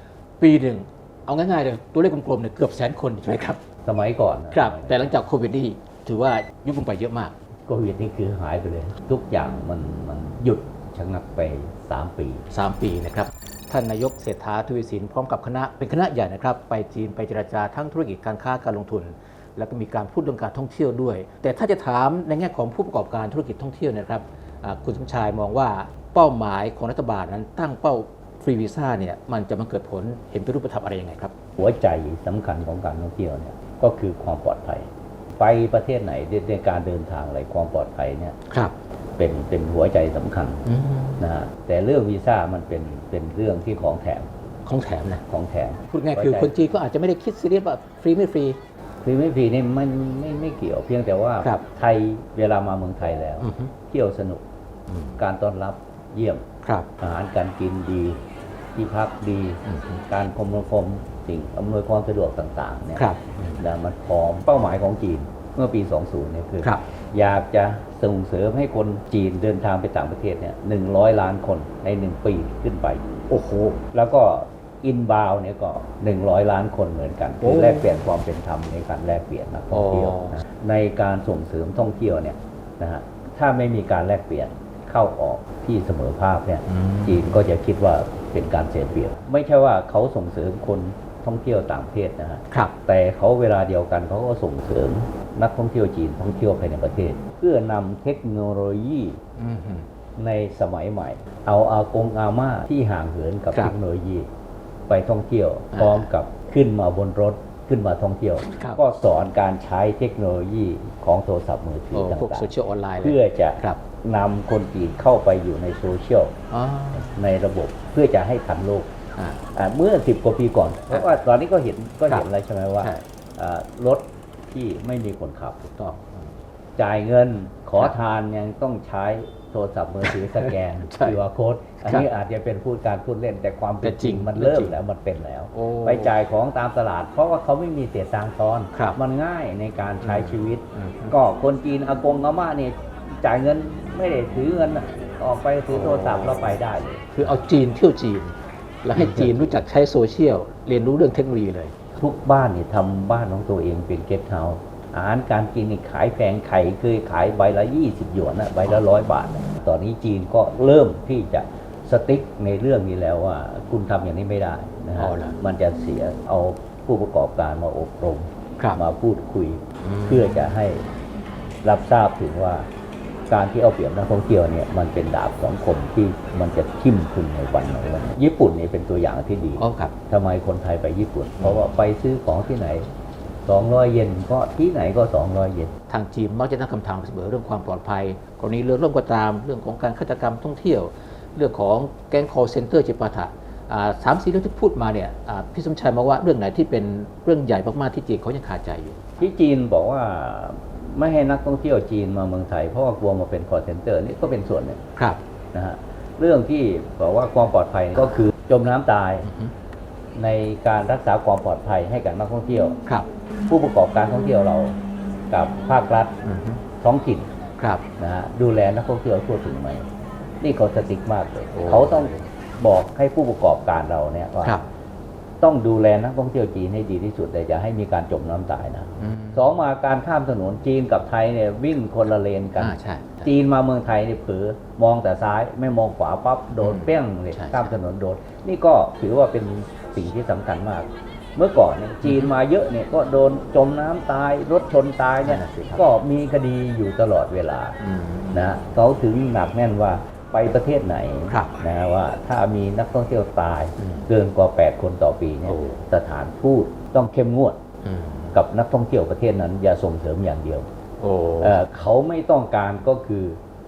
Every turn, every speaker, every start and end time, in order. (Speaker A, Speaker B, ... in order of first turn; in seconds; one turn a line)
Speaker A: 0.4-3.6
Speaker B: 3.9-5.1
Speaker A: 4.5-7.4
Speaker B: 7.7-12.4
Speaker A: 12.5-31.4
Speaker B: 31.6-38.4
Speaker A: 38.5-38.8
Speaker B: 39.2-40.6
Speaker A: 40.6-41.2
Speaker B: 41.2-44.3
Speaker A: 44.6-45.2
Speaker B: 45.3-46.5
Speaker A: 45.9-48.6
Speaker B: 49.0-54.4
Speaker A: 53.4-53.7
Speaker A: 54.9-55.2
Speaker B: 55.2-56.5
Speaker A: 56.6-56.9
Speaker B: 57.0-58.2
Speaker B: 58.8-63.1
Speaker A: 59.6-60.0
Speaker A: 63.0-63.6
Speaker B: 63.6-73.0
Speaker A: 73.3-73.8
Speaker B: 73.9-99.2
Speaker A: 77.4-77.9
Speaker A: 79.7-80.4
Speaker A: 86.7-87.3
Speaker A: 99.4-99.9
Speaker B: 100.2-104.3
Speaker B: 104.9-116.4
Speaker A: 105.7-106.1
Speaker A: 108.5-108.8
Speaker A: 111.9-113.8
Speaker A: 116.5-117.2
Speaker B: 116.9-118.9
Speaker A: 119.2-119.4
Speaker B: 119.5-125.6
Speaker A: 122.8-123.0
Speaker A: 125.6-126.4
Speaker B: 126.8-147.4
Speaker A: 130.0-131.2
Speaker A: 133.8-134.8
Speaker A: 135.5-136.2
Speaker A: 138.7-139.0
Speaker A: 140.0-141.2
Speaker A: 145.7-146.6
Speaker A: 147.1-151.8
Speaker B: 148.9-149.5
Speaker B: 152.0-170.9
Speaker A: 165.0-165.4
Speaker A: 169.8-170.4
Speaker B: 171.6-172.7
Speaker B: 173.3-182.9
Speaker A: 179.6-179.9
Speaker A: 181.4-181.7
Speaker B: 183.5-185.7
Speaker A: 185.9-199.1
Speaker B: 199.2-204.8
Speaker A: 205.0-205.2
Speaker B: 205.5-209.3
Speaker A: 208.0-208.3
Speaker A: 209.2-209.5
Speaker B: 210.2-212.8
Speaker B: 213.5-214.8
Speaker B: 215.3-216.2
Speaker A: 216.2-216.6
Speaker B: 216.8-217.3
Speaker A: 217.6-217.8
Speaker B: 218.0-219.9
Speaker B: 220.4-224.6
Speaker A: 221.5-222.3
Speaker B: 225.4-247.8
Speaker A: 229.0-229.5
Speaker A: 232.6-233.3
Speaker A: 236.6-237.8
Speaker A: 242.0-242.3
Speaker A: 245.2-245.8
Speaker A: 247.8-248.4
Speaker B: 248.3-257.6
Speaker A: 251.3-251.6
Speaker A: 253.8-254.1
Speaker A: 255.5-255.9
Speaker A: 257.8-258.4
Speaker B: 258.3-260.7
Speaker A: 261.0-261.6
Speaker B: 261.4-263.4